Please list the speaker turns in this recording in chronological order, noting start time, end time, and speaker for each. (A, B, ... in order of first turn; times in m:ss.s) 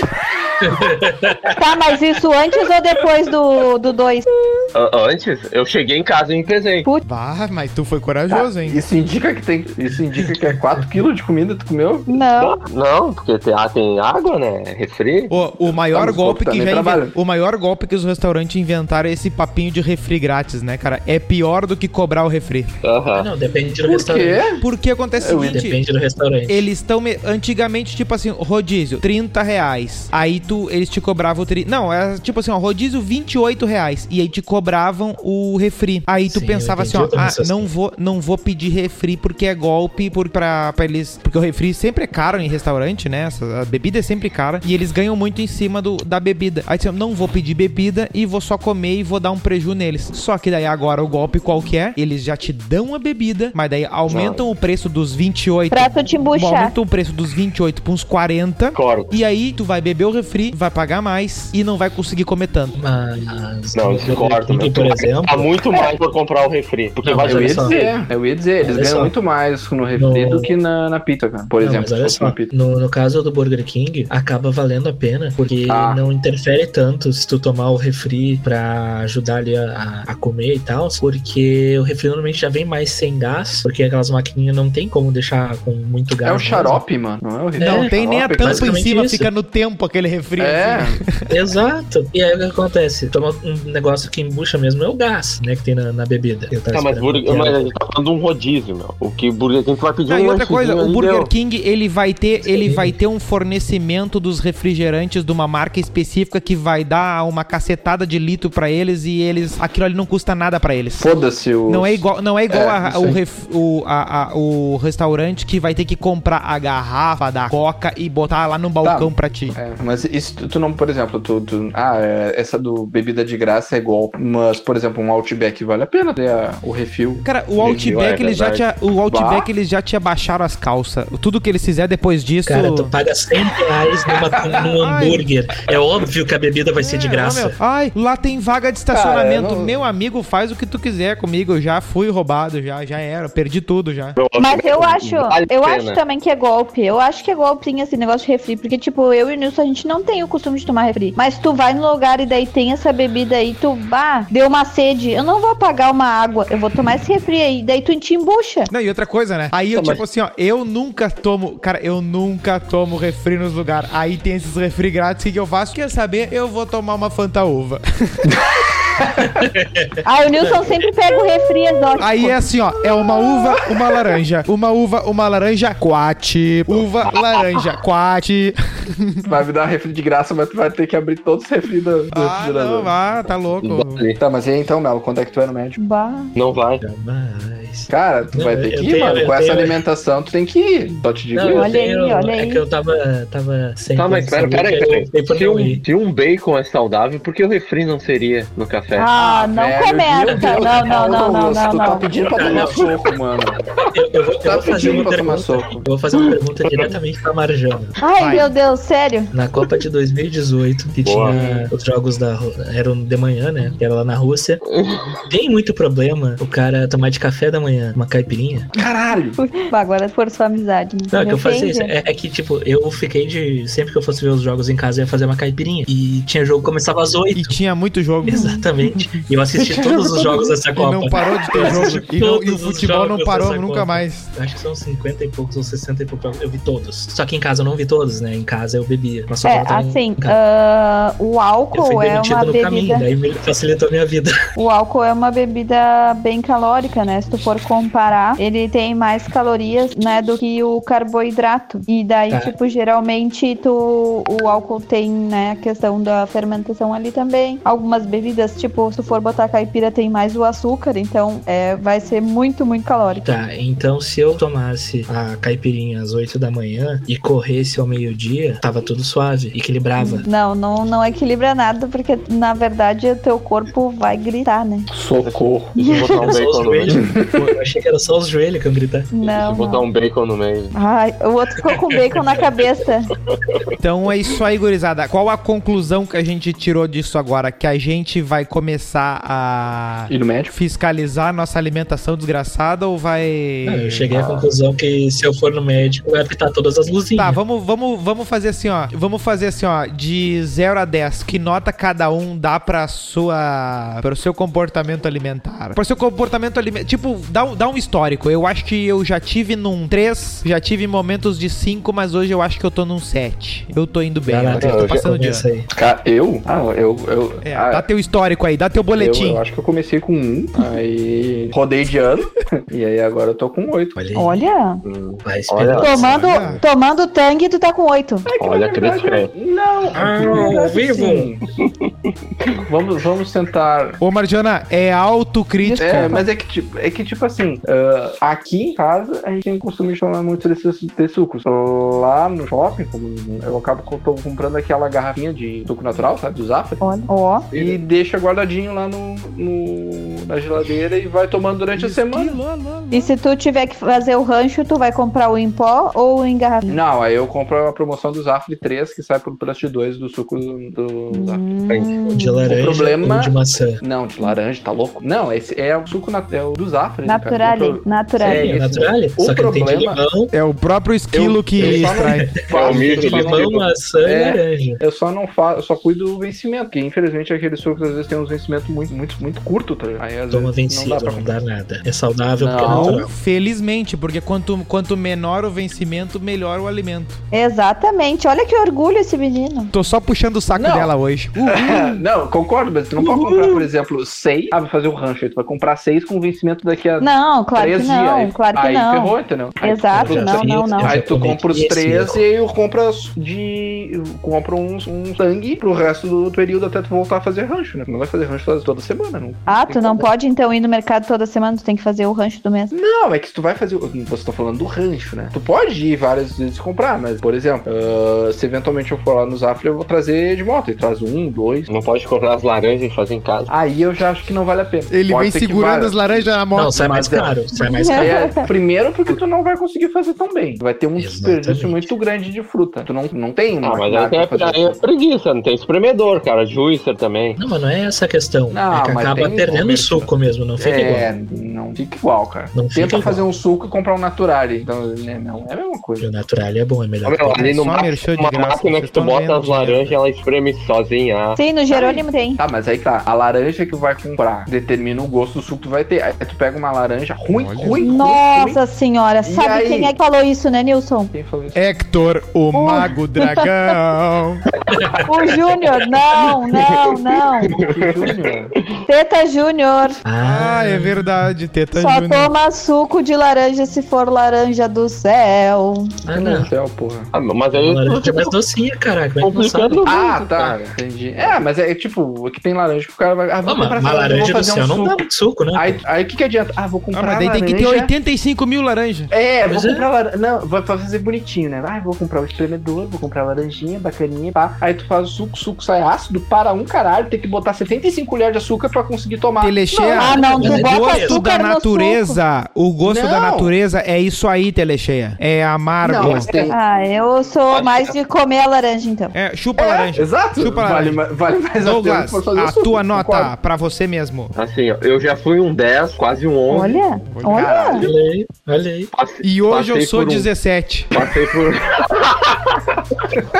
0:00.6-0:01.5 A
0:01.5-0:04.2 B
0:04.7-0:06.9 C
0:07.0-0:08.8 D
0:08.3-0:12.2 E
0:12.1-0:12.6 B
0:12.4-0:15.3 C
0:15.3-0:22.7 D
0:15.9-0:17.2 E
0:22.8-0:23.3 C
0:23.1-0:24.5 A
0:23.8-0:24.6 E
0:24.6-0:25.8 D
0:25.2-0:25.6 E
0:25.4-0:26.7 A
0:26.5-1:02.8 D
0:36.2-0:37.7 A
0:54.1-0:54.4 C
0:55.7-0:56.7 B
0:58.7-0:59.1 C
1:02.8-1:05.5 A
1:03.7-1:07.9 C
1:07.0-1:07.9 A
1:07.2-1:12.5 E
1:08.6-1:09.1 A
1:09.9-1:10.5 A
1:11.6-1:26.8 A
1:15.7-1:16.0 E
1:26.2-1:28.7 E
1:27.6-1:29.3 A
1:27.6-1:31.3 D
1:30.4-1:31.0 E
1:31.3-1:37.7 A
1:36.7-1:41.3 C
1:40.1-1:51.1 D
1:42.6-1:42.9 A
1:51.0-1:53.2 E
1:51.6-1:59.6 D
1:58.8-2:07.2 E
2:07.2-2:12.9 D
2:07.6-2:08.6 C
2:09.1-2:09.5 E
2:12.4-2:17.6 A
2:14.8-2:15.3 D
2:16.8-2:24.2 D
2:18.9-2:19.8 E
2:24.2-2:26.0 C
2:24.3-2:38.7 B
2:38.7-2:48.3 D
2:39.7-2:40.0 C
2:49.0-2:49.3 E
2:49.2-2:50.0 A
2:50.0-2:52.4 B
2:52.0-2:59.3 D
2:53.2-2:53.5 E
2:57.1-2:57.7 C
2:59.3-3:02.9 E
3:02.1-3:04.1 D
3:03.6-3:04.2 C
3:04.2-3:05.8 E
3:05.8-3:06.3 B
3:06.3-3:06.8 C
3:06.8-3:09.8 A
3:07.9-3:11.8 E
3:11.3-3:15.8 A
3:11.5-3:12.6 B
3:13.9-3:19.1 C
3:19.0-3:22.1 B
3:19.2-3:23.6 E
3:20.2-3:21.0 A
3:22.2-3:22.8 A
3:23.9-3:28.0 A
3:24.4-3:25.8 E
3:28.0-3:29.3 B
3:28.2-3:28.5 D
3:29.3-3:34.6 A
3:31.0-3:31.4 C
3:31.3-3:31.7 E
3:34.7-3:35.2 C
3:35.3-3:38.7 A
3:38.8-3:39.4 E
3:39.4-3:41.9 B
3:41.1-3:47.6 A
3:47.3-3:48.5 D
3:48.2-4:00.4 A
3:48.2-3:48.6 B
3:49.7-3:50.3 E
3:50.7-3:54.3 D
3:51.6-3:52.0 E
3:59.4-4:03.1 B
4:01.7-4:04.3 A
4:04.6-4:23.4 B
4:23.2-4:30.3 A
4:30.0-4:34.9 B
4:34.9-4:35.7 E
4:35.2-4:37.0 C
4:35.8-4:36.3 B
4:36.0-4:39.1 A
4:36.9-4:37.4 E
4:39.1-4:39.8 B
4:39.2-4:40.7 C
4:40.7-4:43.1 B
4:43.3-4:43.6 C
4:43.8-4:54.2 D
4:50.1-4:50.6 E
4:53.6-4:57.4 A
4:54.1-4:54.4 E
4:57.2-5:15.5 D
5:14.2-5:15.7 A
5:14.6-5:15.0 C
5:15.7-5:17.8 E
5:17.4-5:19.4 D
5:19.0-5:24.0 E
5:24.0-5:24.5 A
5:24.1-5:24.8 B
5:24.8-5:26.0 C
5:25.2-5:26.6 A
5:25.7-5:28.3 B
5:26.2-5:26.6 D
5:28.2-5:31.4 E
5:28.4-5:29.3 C
5:29.9-5:31.3 A
5:32.6-5:34.0 E
5:34.0-5:36.2 D
5:35.6-5:36.2 B
5:35.8-5:52.4 E
5:46.8-5:47.5 B
5:51.7-5:53.1 D
5:52.9-5:56.8 B
5:56.7-6:01.4 E
6:01.1-6:02.5 B
6:02.1-6:03.8 A
6:02.5-6:10.0 E
6:07.0-6:08.6 B
6:08.2-6:10.3 A
6:10.3-6:12.4 D
6:11.1-6:21.4 E
6:11.6-6:14.8 A
6:12.5-6:13.6 C
6:20.3-6:23.1 A
6:22.4-6:23.1 E
6:22.6-6:27.2 D
6:27.3-6:29.7 B
6:29.7-6:31.7 D
6:30.5-6:30.9 E
6:31.4-6:50.1 E
6:33.0-6:33.7 A
6:37.0-6:41.0 B
6:39.9-6:42.2 A
6:49.5-6:52.7 B
6:52.7-7:01.7 E
7:01.7-7:03.5 C
7:03.5-7:14.8 E
7:04.9-7:06.8 D
7:06.5-7:08.3 A
7:07.8-7:08.4 B
7:11.0-7:11.9 A
7:13.6-7:17.4 C
7:17.4-7:21.1 A
7:18.5-7:26.1 E
7:22.5-7:23.3 A
7:26.0-7:27.5 A
7:27.0-7:31.4 C
7:27.3-7:30.0 D
7:31.4-7:32.4 B
7:31.7-7:38.6 E
7:37.3-7:37.9 D
7:37.8-7:41.1 B
7:39.2-7:40.0 E
7:41.1-7:41.6 E
7:41.5-7:44.4 D
7:42.5-7:43.5 B
7:44.7-7:45.0 A
7:45.0-7:47.6 B
7:46.5-7:48.3 C
7:47.6-7:48.5 E
7:48.9-7:50.0 B
7:50.0-7:51.3 A
7:50.2-7:52.3 D
7:51.7-7:55.9 B
7:56.0-7:56.5 A
7:56.1-7:57.1 E
7:57.1-7:58.3 C
7:57.5-7:59.8 A
7:59.2-8:00.7 C
7:59.8-8:07.9 E
8:03.4-8:05.8 A
8:06.9-8:09.1 D
8:09.1-8:20.6 E
8:09.5-8:09.9 A
8:19.4-8:26.3 D
8:20.0-8:22.2 B
8:20.2-8:21.2 A
8:22.8-8:23.5 E
8:25.8-8:26.5 E
8:26.0-8:26.5 C
8:26.0-8:29.1 B
8:27.5-8:28.0 C
8:29.1-8:31.0 D
8:29.6-8:33.3 E
8:31.6-8:34.3 D
8:34.3-8:36.8 C
8:36.5-8:37.8 B
8:37.1-8:37.7 D
8:37.3-8:37.9 E
8:37.8-8:38.9 A
8:38.9-8:40.3 C
8:39.2-8:40.9 D
8:40.9-8:43.2 C